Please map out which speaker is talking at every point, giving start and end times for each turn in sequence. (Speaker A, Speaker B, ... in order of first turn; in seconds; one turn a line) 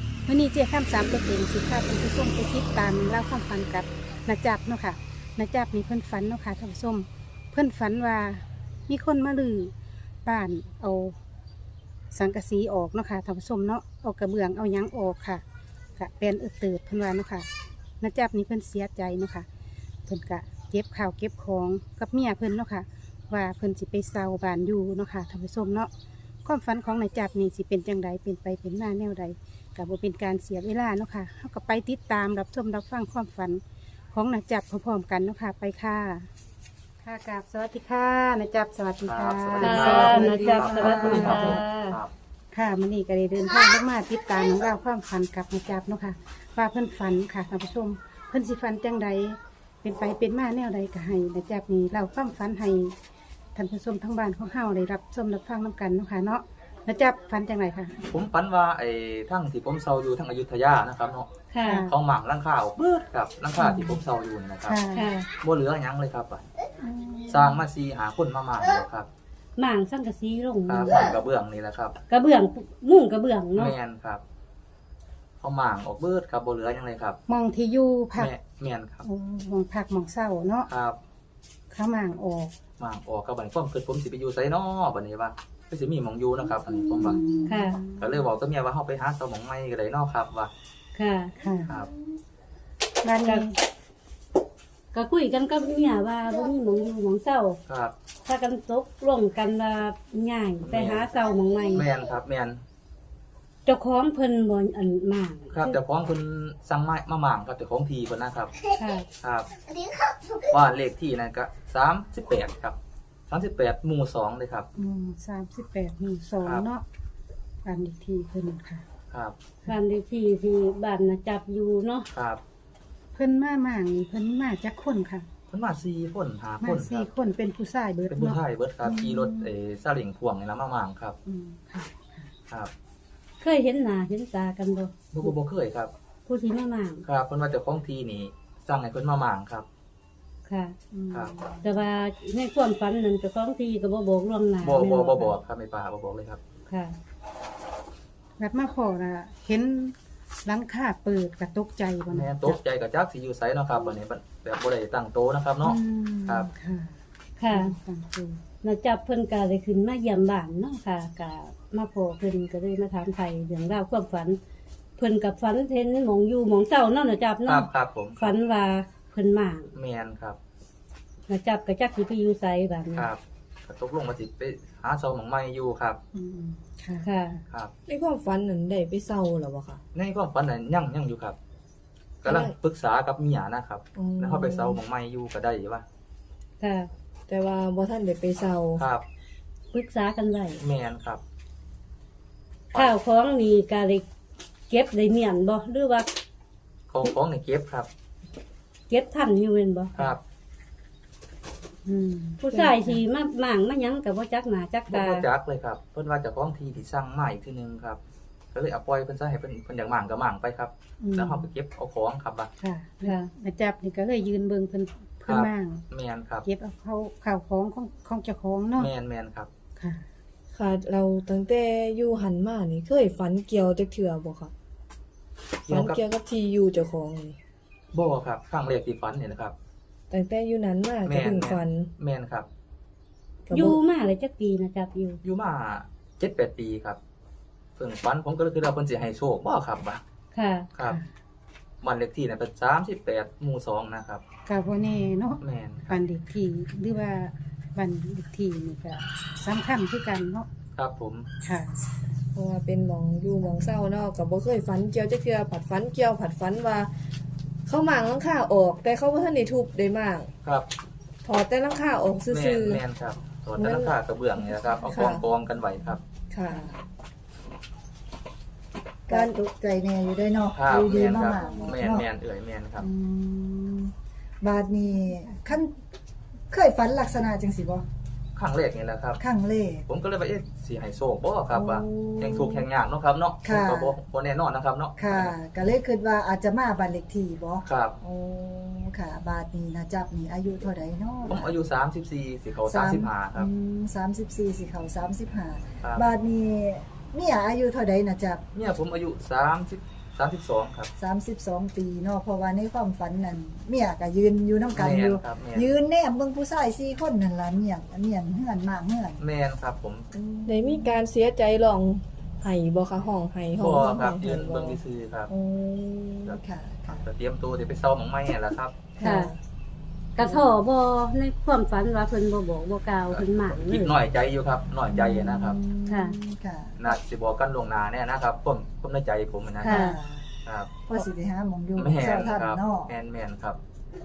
Speaker A: 0.3-9.7
Speaker A: 10.2-11.2
Speaker A: 12.1-15.4
Speaker A: 16.0-17.5
Speaker A: 18.0-19.5
Speaker A: 20.1-25.9
Speaker A: 26.4-33.6
Speaker A: 34.1-36.3
Speaker A: 37.0-41.6
Speaker B: 39.0-42.1
Speaker C: 39.6-42.0
Speaker D: 39.8-41.6
Speaker E: 39.9-41.4
Speaker A: 42.5-53.0
Speaker A: 53.5-58.0
Speaker B: 58.1-61.3
Speaker C: 61.5-61.8
Speaker A: 61.6-61.9
Speaker B: 61.9-64.8
Speaker A: 63.6-64.0
Speaker A: 64.7-65.1
Speaker C: 65.0-65.3
Speaker B: 65.4-66.5
Speaker D: 66.8-67.6
Speaker B: 67.3-69.1
Speaker C: 69.6-70.9
Speaker B: 70.7-72.0
Speaker C: 72.1-73.7
Speaker B: 73.6-74.2
Speaker B: 75.4-77.2
Speaker A: 77.3-78.3
Speaker B: 78.2-79.0
Speaker A: 79.0-80.7
Speaker B: 80.7-81.0
Speaker A: 81.7-82.5
Speaker B: 82.8-87.2
Speaker D: 86.9-87.7
Speaker A: 87.0-88.2
Speaker C: 87.5-87.8
Speaker B: 87.9-90.5
Speaker C: 90.9-91.4
Speaker A: 91.4-91.7
Speaker A: 93.0-93.6
Speaker C: 93.2-93.5
Speaker C: 94.9-97.6
Speaker B: 97.7-97.9
Speaker C: 98.2-101.9
Speaker B: 100.6-101.1
Speaker B: 101.7-102.6
Speaker C: 103.7-105.8
Speaker B: 105.5-108.5
Speaker B: 109.2-109.5
Speaker B: 110.4-112.8
Speaker B: 113.3-114.7
Speaker A: 114.8-116.8
Speaker B: 116.4-116.7
Speaker A: 117.7-118.8
Speaker C: 119.7-122.1
Speaker B: 122.1-122.4
Speaker A: 123.1-125.3
Speaker B: 125.5-127.1
Speaker A: 126.6-128.4
Speaker B: 128.1-131.2
Speaker D: 128.8-129.5
Speaker A: 131.3-132.3
Speaker C: 133.4-135.3
Speaker B: 135.1-135.9
Speaker C: 136.3-137.1
Speaker B: 137.1-139.7
Speaker C: 140.5-140.8
Speaker A: 140.9-141.8
Speaker C: 141.6-145.3
Speaker B: 144.6-146.4
Speaker C: 146.7-147.0
Speaker A: 148.4-152.6
Speaker B: 152.1-156.5
Speaker A: 155.6-157.0
Speaker C: 157.4-157.8
Speaker A: 157.5-158.4
Speaker C: 158.6-164.4
Speaker C: 165.0-169.8
Speaker B: 167.5-168.3
Speaker B: 169.8-170.4
Speaker C: 171.3-173.1
Speaker B: 173.0-176.0
Speaker A: 176.1-177.4
Speaker C: 177.0-177.4
Speaker E: 177.9-179.8
Speaker B: 179.9-181.4
Speaker B: 182.2-185.8
Speaker E: 182.2-182.5
Speaker E: 184.0-184.8
Speaker C: 186.6-186.9
Speaker E: 187.3-188.8
Speaker B: 188.8-189.0
Speaker C: 189.7-190.6
Speaker B: 190.6-191.2
Speaker C: 192.7-194.1
Speaker C: 194.7-196.1
Speaker B: 196.9-197.9
Speaker C: 198.9-200.2
Speaker B: 199.9-200.2
Speaker A: 201.9-203.0
Speaker C: 202.4-205.3
Speaker E: 202.5-202.8
Speaker B: 204.9-208.0
Speaker B: 208.5-212.5
Speaker A: 211.0-211.5
Speaker A: 212.6-215.8
Speaker C: 213.0-213.3
Speaker B: 215.3-216.5
Speaker A: 216.4-218.9
Speaker B: 218.8-219.5
Speaker A: 219.8-220.1
Speaker E: 220.5-224.5
Speaker B: 225.7-226.0
Speaker E: 225.7-227.4
Speaker B: 227.9-229.6
Speaker E: 230.1-231.9
Speaker B: 231.1-232.5
Speaker C: 233.5-235.2
Speaker E: 233.5-233.8
Speaker B: 235.2-237.0
Speaker B: 237.8-240.0
Speaker C: 240.3-240.7
Speaker B: 241.8-244.2
Speaker A: 244.5-250.5
Speaker B: 245.4-246.0
Speaker B: 250.8-251.3
Speaker A: 251.4-252.2
Speaker E: 252.3-256.9
Speaker E: 257.7-260.3
Speaker E: 261.2-262.8
Speaker B: 262.3-266.0
Speaker E: 263.6-265.2
Speaker E: 266.3-266.7
Speaker D: 266.5-266.9
Speaker D: 269.1-272.1
Speaker E: 269.1-269.4
Speaker B: 270.5-272.9
Speaker D: 272.8-275.8
Speaker D: 276.5-277.9
Speaker B: 278.4-279.2
Speaker D: 279.2-279.9
Speaker B: 279.9-285.4
Speaker D: 281.5-282.7
Speaker D: 283.4-284.0
Speaker D: 285.0-291.5
Speaker B: 287.6-288.0
Speaker B: 291.3-293.5
Speaker D: 292.7-298.4
Speaker B: 298.5-300.9
Speaker D: 301.0-309.2
Speaker B: 304.7-305.7
Speaker B: 309.2-310.1
Speaker D: 310.1-311.0
Speaker E: 310.5-314.8
Speaker B: 313.6-315.3
Speaker D: 315.3-317.0
Speaker B: 316.2-318.8
Speaker D: 319.0-319.4
Speaker C: 319.0-319.3
Speaker C: 320.2-324.0
Speaker B: 323.1-325.6
Speaker D: 324.9-327.0
Speaker C: 325.9-326.2
Speaker B: 326.8-329.9
Speaker C: 329.6-330.0
Speaker D: 329.6-330.3
Speaker B: 330.4-330.7
Speaker D: 330.9-332.9
Speaker B: 331.8-333.6